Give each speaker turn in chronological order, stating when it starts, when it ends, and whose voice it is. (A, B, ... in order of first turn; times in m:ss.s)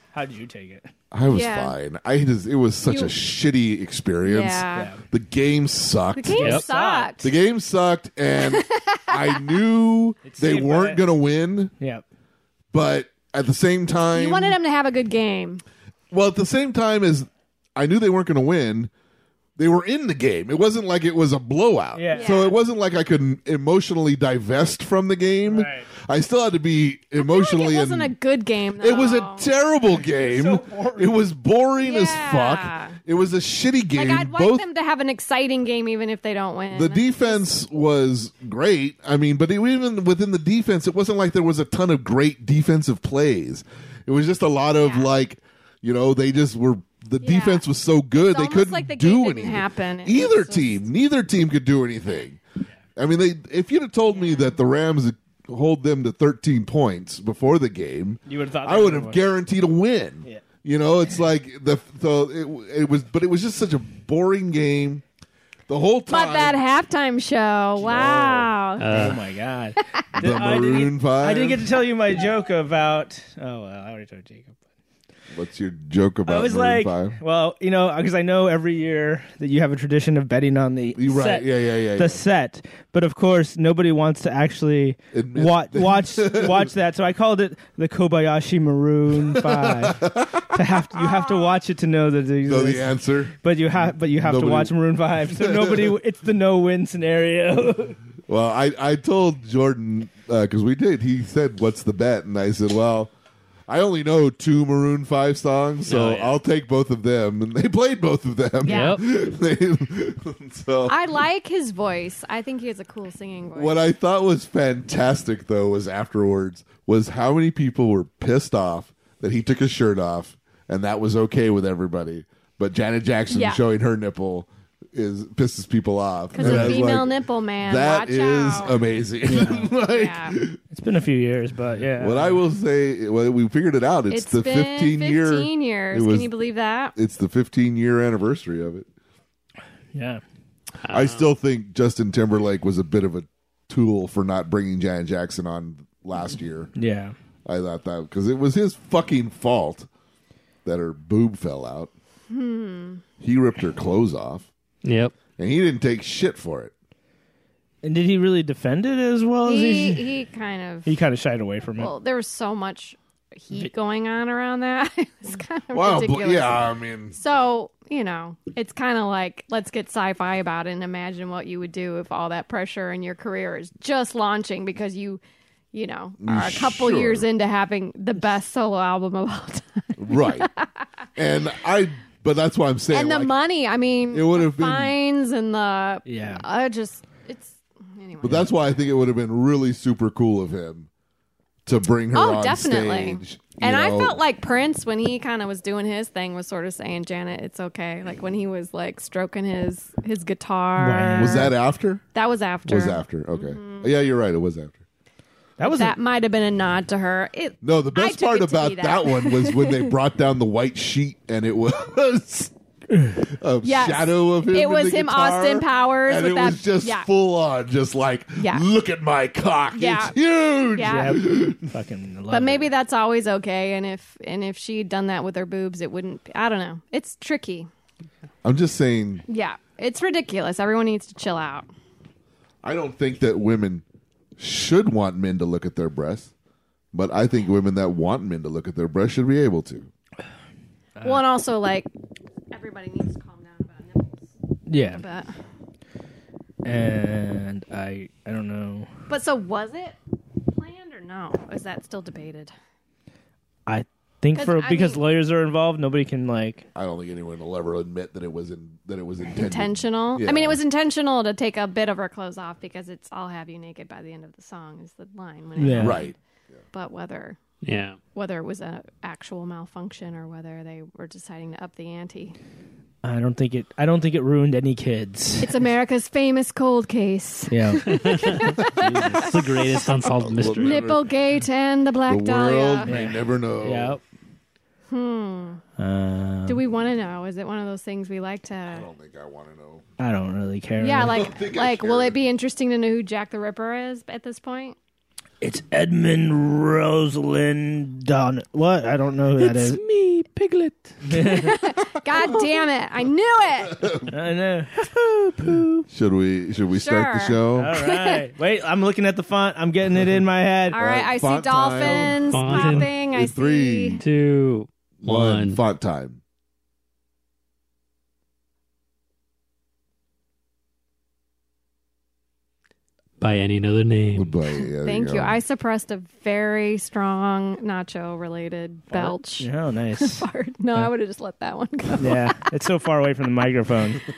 0:00.1-0:00.9 A
0:01.1-0:06.5 B
0:01.3-0:01.8 C
0:02.8-0:03.1 C
0:04.2-0:04.9 C
0:04.7-0:05.0 A
0:06.1-0:07.3 C
0:06.4-0:07.2 A
0:06.4-0:06.6 D
0:07.2-0:11.7 B
0:08.4-0:09.4 C
0:10.2-0:11.0 A
0:12.7-0:14.6 B
0:14.1-0:15.6 C
0:16.1-0:18.9 B
0:19.6-0:28.1 B
0:21.9-0:22.4 A
0:22.1-0:22.6 C
0:25.5-0:25.9 A
0:27.2-0:29.5 C
0:28.8-0:34.6 B
0:29.9-0:31.2 A
0:31.8-0:33.0 C
0:33.9-0:37.6 C
0:36.7-0:52.4 B
0:44.8-0:45.1 C
0:47.2-0:47.6 C
0:48.2-0:50.9 C
0:53.0-1:05.0 B
0:54.1-0:54.5 C
0:58.2-0:59.2 A
1:05.7-1:06.6 B
1:06.1-1:09.2 C
1:07.8-1:14.6 A
1:08.8-1:09.2 D
1:10.1-1:10.4 C
1:10.2-1:11.6 B
1:15.3-1:17.2 B
1:16.2-1:38.0 A
1:21.0-1:22.2 B
1:25.1-1:26.7 B
1:29.3-1:30.3 B
1:32.4-1:35.9 B
1:38.3-1:43.1 B
1:43.7-1:51.0 B
1:45.8-1:46.4 D
1:48.6-1:49.0 C
1:48.6-1:49.0 D
1:50.9-1:53.8 C
1:53.5-2:10.6 B
2:03.3-2:03.6 C
2:06.3-2:08.8 C
2:06.4-2:06.8 A
2:09.2-2:09.7 A
2:09.9-2:10.4 C
2:10.7-2:12.4 A
2:12.0-2:16.3 B
2:14.1-2:16.9 C
2:16.9-2:18.9 B
2:19.9-2:20.2 A
2:20.8-2:21.3 D
2:20.9-2:26.7 B
2:26.7-2:27.1 A
2:27.4-2:29.9 B
2:30.6-2:31.9 B
2:32.3-2:33.0 C
2:33.2-2:34.5 B
2:34.8-2:35.1 D
2:35.4-2:36.7 B
2:37.8-2:40.1 A
2:39.4-2:40.9 C
2:40.8-2:41.9 A
2:41.8-2:55.2 C
2:45.7-2:47.2 B
2:55.7-3:00.7 C
2:56.2-2:57.3 B
3:00.0-3:00.5 B
3:01.2-3:03.3 B
3:02.9-3:08.5 C
3:04.1-3:04.9 B
3:06.0-3:06.4 A
3:08.2-3:10.9 B
3:11.6-3:14.2 B
3:12.1-3:21.6 C
3:20.8-3:21.5 A
3:21.2-3:22.0 B
3:22.1-3:23.9 C
3:22.6-3:24.8 B
3:25.6-3:26.0 A
3:25.6-3:29.9 C
3:27.6-3:32.5 B
3:33.1-3:41.7 B
3:33.6-3:37.1 C
3:38.4-3:38.6 C
3:39.7-3:40.2 C
3:40.7-3:41.2 C
3:40.8-3:42.7 A
3:42.3-3:47.7 C
3:48.4-3:49.2 B
3:49.3-3:51.7 C
3:52.6-3:53.8 B
3:54.4-3:56.3 B
3:56.9-3:59.9 B
4:01.0-4:01.9 C
4:02.5-4:05.3 C
4:04.7-4:05.0 A
4:06.6-4:08.9 A
4:09.1-4:12.5 C
4:13.7-4:16.7 A
4:14.3-4:15.0 C
4:16.7-4:20.6 B
4:19.3-4:26.1 C
4:25.6-4:26.0 A
4:25.8-4:26.2 B
4:26.7-4:27.4 C
4:27.6-4:28.0 D
4:28.1-4:32.4 C
4:33.0-4:35.5 A
4:35.4-4:42.9 C
4:37.5-4:37.9 A
4:37.9-4:40.8 D
4:40.2-4:41.1 B
4:42.1-4:44.0 B
4:42.9-4:44.0 A
4:44.9-4:45.6 C
4:45.8-4:46.6 A
4:46.5-4:48.9 C
4:48.7-4:49.8 B
4:50.0-4:51.2 A
4:50.8-4:54.8 C
4:51.1-4:52.2 B
4:55.4-4:59.8 A
4:59.4-5:01.0 D
5:01.0-5:01.6 A
5:01.2-5:04.0 C
5:04.1-5:05.8 A
5:05.9-5:07.8 B
5:06.7-5:08.2 C
5:07.5-5:10.8 A
5:10.7-5:14.0 C
5:10.7-5:14.0 B
5:11.8-5:12.9 D
5:14.0-5:15.6 D
5:15.0-5:16.2 B
5:23.2-5:24.3 D
5:24.1-5:25.4 B
5:24.5-5:32.3 C
5:28.9-5:30.9 A
5:32.0-5:34.0 A